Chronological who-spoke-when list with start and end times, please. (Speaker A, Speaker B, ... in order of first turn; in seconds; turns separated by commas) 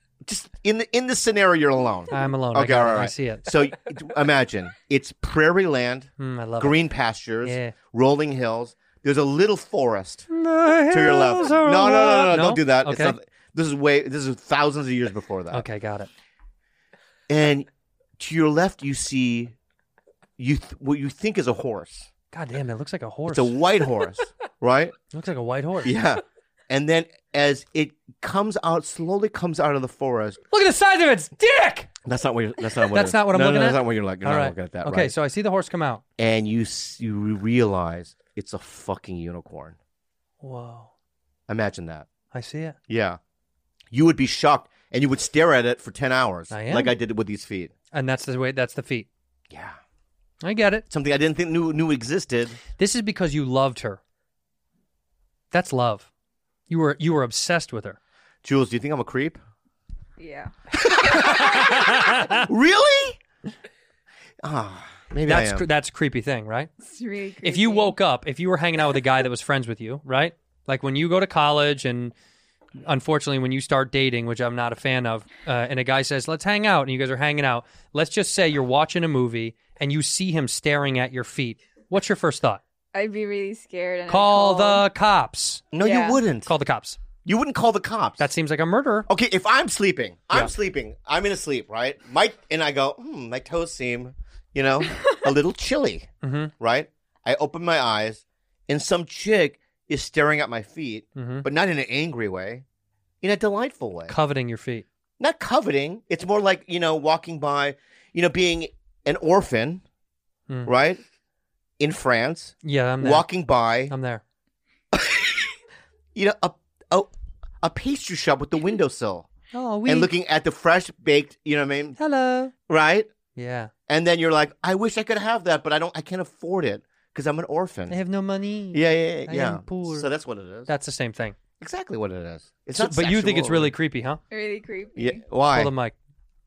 Speaker A: 0.2-10.3, Speaker B: 2.1-3.5, Speaker B: 6.2-6.8, Speaker B: 7.4-7.7, Speaker B: 10.3-13.2, Speaker A: 10.9-15.7, Speaker B: 15.5-16.1, Speaker A: 17.3-17.7, Speaker A: 18.2-19.5, Speaker A: 20.4-22.1, Speaker B: 22.3-23.5, Speaker A: 23.3-25.0, Speaker B: 25.1-25.9, Speaker A: 25.8-30.4, Speaker B: 30.5-31.9, Speaker A: 32.0-35.1, Speaker B: 32.9-36.0, Speaker A: 36.2-39.8, Speaker B: 40.4-40.9, Speaker A: 41.5-42.1, Speaker B: 42.3-42.8, Speaker A: 42.9-43.2, Speaker A: 43.9-47.7, Speaker B: 46.5-46.9, Speaker B: 47.9-49.1, Speaker A: 49.5-49.8, Speaker B: 50.4-50.8, Speaker A: 50.9-52.6, Speaker B: 52.8-54.0, Speaker B: 55.5-56.1, Speaker B: 56.7-58.0, Speaker A: 58.4-59.4, Speaker C: 60.2-60.5, Speaker A: 60.9-61.7, Speaker B: 61.2-62.5, Speaker A: 62.4-63.2, Speaker A: 64.4-65.7, Speaker B: 65.2-66.7, Speaker C: 66.8-67.9, Speaker B: 67.4-72.1, Speaker B: 72.8-82.6, Speaker C: 82.9-84.8, Speaker B: 84.1-85.7, Speaker A: 85.7-86.5, Speaker C: 85.8-86.2, Speaker B: 86.4-87.0, Speaker A: 87.2-88.3, Speaker B: 88.2-89.1, Speaker A: 89.1-102.6, Speaker B: 96.2-96.5, Speaker B: 101.2-101.5, Speaker A: 103.2-104.1, Speaker B: 104.1-104.8, Speaker A: 105.2-109.8, Speaker A: 110.6-111.0, Speaker A: 111.8-113.9, Speaker B: 112.6-113.3, Speaker B: 113.9-114.2, Speaker A: 114.9-115.5, Speaker A: 116.1-117.1, Speaker A: 117.6-119.3, Speaker B: 119.5-120.1, Speaker A: 119.8-122.0, Speaker B: 122.0-122.5, Speaker A: 122.7-123.1, Speaker B: 123.4-123.7, Speaker A: 123.9-128.0, Speaker B: 127.9-130.1, Speaker A: 128.7-130.7, Speaker B: 130.7-131.3, Speaker A: 131.6-133.7, Speaker B: 132.7-134.2, Speaker C: 134.3-135.2, Speaker A: 134.9-135.7, Speaker B: 135.5-135.9